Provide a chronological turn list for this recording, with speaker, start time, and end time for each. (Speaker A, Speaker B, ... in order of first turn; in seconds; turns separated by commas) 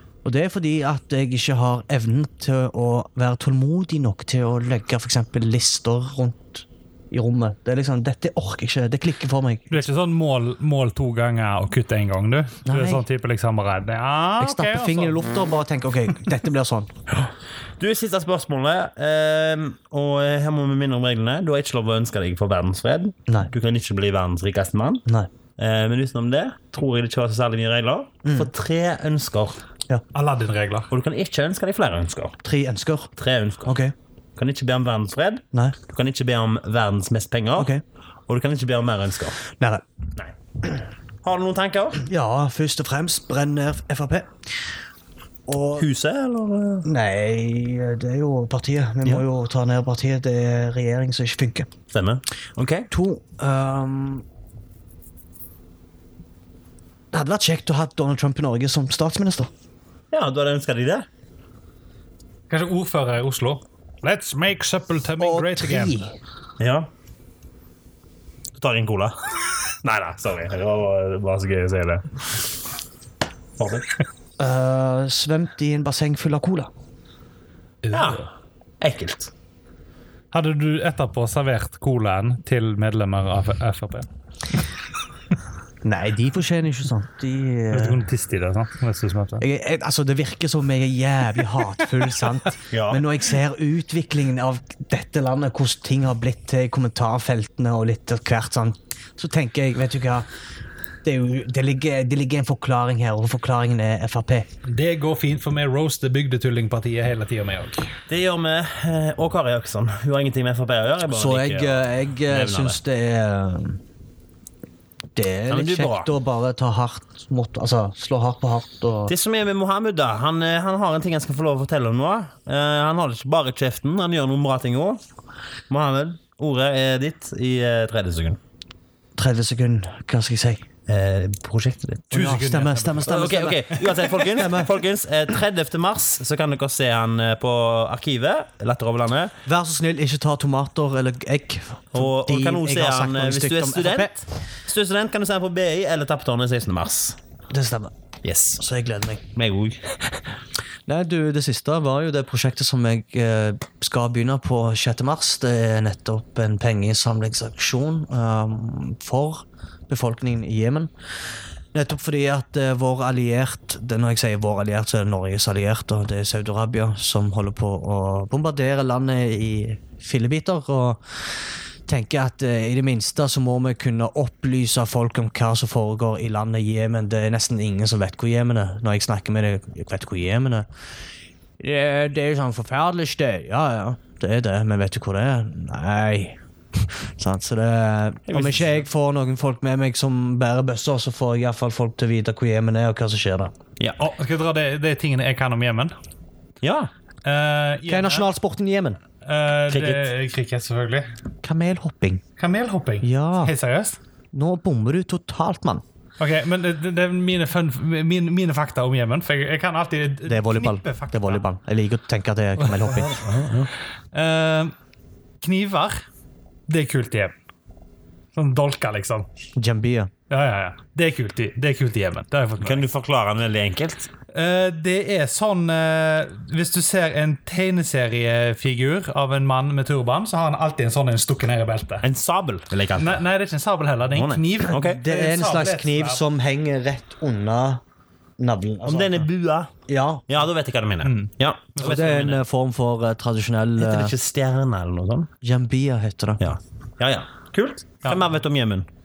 Speaker A: 0.2-9.9, Speaker B: 9.7-15.2, Speaker A: 12.7-13.0, Speaker A: 14.4-16.9, Speaker C: 17.1-25.0, Speaker C: 25.6-29.6, Speaker A: 28.2-28.5, Speaker B: 30.1-30.9, Speaker C: 30.9-32.4, Speaker A: 32.4-33.1, Speaker C: 33.2-33.8, Speaker A: 33.6-33.9, Speaker C: 34.4-37.8, Speaker A: 37.6-37.8, Speaker C: 38.3-39.4, Speaker A: 39.6-39.8, Speaker C: 41.2-42.0, Speaker A: 42.0-44.5, Speaker A: 45.5-45.9, Speaker C: 45.8-46.9, Speaker A: 46.9-51.7, Speaker C: 51.9-52.9, Speaker A: 52.9-54.2, Speaker A: 57.1-59.5, Speaker C: 60.1-61.1, Speaker B: 62.5-66.0, Speaker A: 65.2-66.2, Speaker C: 66.6-66.9, Speaker C: 68.6-72.5, Speaker C: 73.6-73.9, Speaker A: 74.4-76.7, Speaker B: 77.8-78.2, Speaker C: 77.9-78.3, Speaker C: 78.8-79.3, Speaker B: 80.3-84.1, Speaker A: 85.8-88.1, Speaker B: 87.7-89.4, Speaker A: 89.4-100.3, Speaker C: 92.7-93.0, Speaker A: 101.0-104.5, Speaker B: 104.7-107.8, Speaker C: 108.1-112.8, Speaker A: 111.1-113.8, Speaker A: 115.2-119.1, Speaker C: 115.5-116.1, Speaker C: 119.1-125.0, Speaker C: 125.7-128.4, Speaker A: 129.2-130.6, Speaker C: 130.9-132.1, Speaker A: 132.1-134.8, Speaker B: 132.1-133.7, Speaker C: 133.1-139.3, Speaker A: 139.5-144.1, Speaker C: 141.9-147.2, Speaker A: 147.5-147.9, Speaker C: 148.2-148.6, Speaker A: 148.6-149.2, Speaker C: 149.4-150.0, Speaker A: 150.9-160.9, Speaker A: 161.7-180.7, Speaker A: 181.6-193.5, Speaker C: 188.3-188.7, Speaker B: 194.0-195.9, Speaker C: 196.6-196.9, Speaker B: 197.2-198.3, Speaker A: 197.9-199.0, Speaker B: 199.2-201.1, Speaker C: 199.7-200.1, Speaker A: 201.4-202.2, Speaker B: 202.4-204.0, Speaker A: 203.0-203.5, Speaker A: 204.3-205.8, Speaker B: 206.2-211.4, Speaker A: 210.3-213.1, Speaker C: 212.9-213.7, Speaker B: 214.1-214.7, Speaker B: 215.4-216.1, Speaker B: 216.7-217.3, Speaker B: 218.3-219.3, Speaker A: 219.6-220.1, Speaker B: 220.3-222.8, Speaker C: 222.6-224.1, Speaker B: 224.3-232.1, Speaker C: 232.0-233.2, Speaker B: 233.0-236.2, Speaker C: 234.1-235.0, Speaker A: 234.7-237.8, Speaker A: 238.4-239.3, Speaker C: 238.8-239.7, Speaker A: 239.9-240.3, Speaker C: 240.3-242.4, Speaker B: 241.0-242.3, Speaker A: 241.8-244.1, Speaker C: 243.8-245.3, Speaker A: 245.4-246.5, Speaker C: 246.4-248.9